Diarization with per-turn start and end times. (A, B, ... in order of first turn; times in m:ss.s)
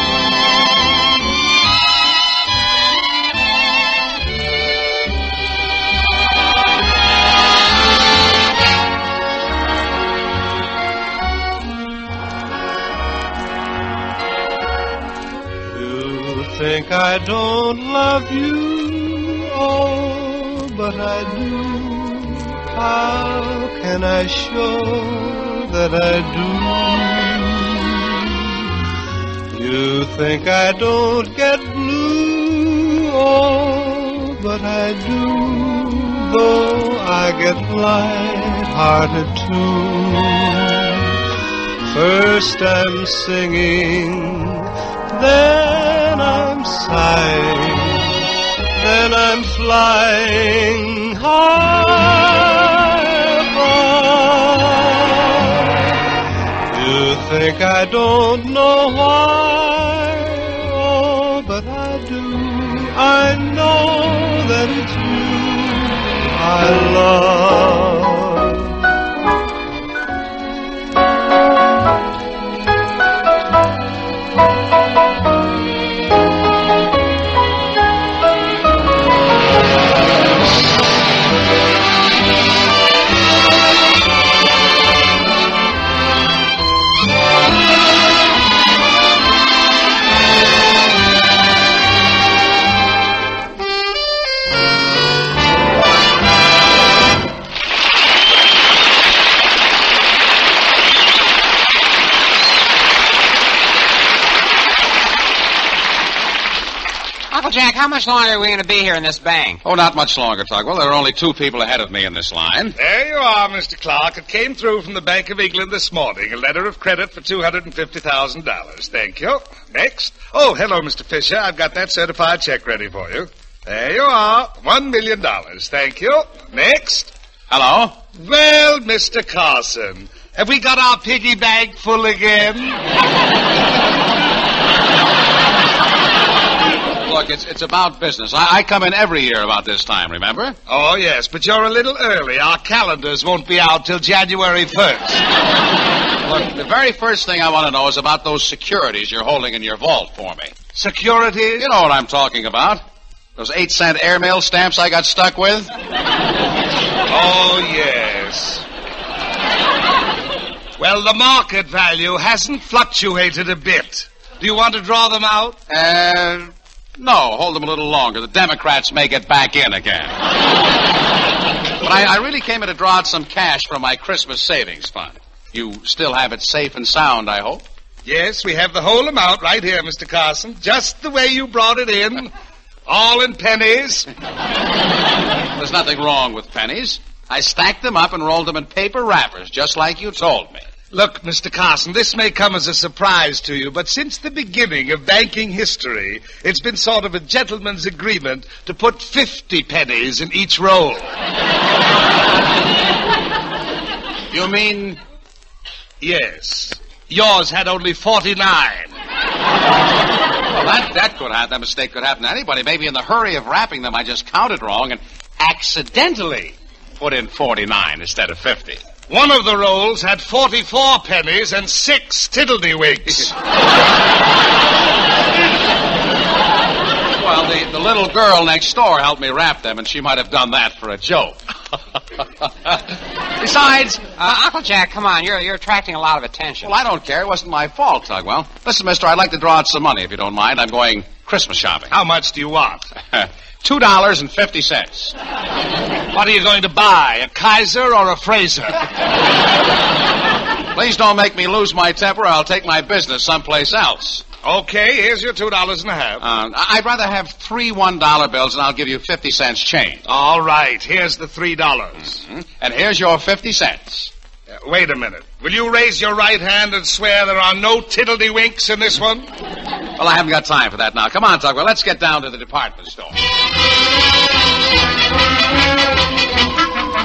0:15.7-0:28.6 A
0:29.5-0:41.2 A
0:41.9-0:48.2 A
0:48.8-0:55.9 A
0:56.7-1:08.8 A
1:47.3-1:49.6 B
1:49.6-1:52.8 C
1:52.8-2:07.1 D
2:07.5-2:08.0 C
2:08.2-2:12.8 D
2:17.0-2:20.6 C
2:20.7-2:25.2 D
2:26.2-2:30.5 C
2:30.7-2:31.7 D
2:31.6-2:32.8 C
2:33.4-2:35.7 C
2:37.1-2:38.6 D
2:40.8-2:45.6 D
2:45.7-2:50.2 C
2:51.8-2:57.6 C
2:58.0-3:02.3 D
3:02.9-3:04.1 D
3:05.6-3:10.6 C
3:10.9-3:21.1 D
3:24.3-3:25.0 C
3:26.0-3:28.9 D
3:30.5-3:38.8 C
3:39.1-3:43.3 D
3:47.1-3:51.8 C
3:52.4-3:52.8 C
3:53.4-3:54.1 C
3:54.2-3:56.7 B
3:56.6-4:01.9 C
4:01.9-4:02.9 D
4:03.1-4:05.1 C
4:06.1-4:08.8 D
4:10.7-4:14.2 C
4:14.4-4:16.2 D
4:16.2-4:20.0 C
4:20.0-4:22.2 D
4:22.4-4:24.1 C
4:24.6-4:29.3 D
4:30.0-4:33.2 C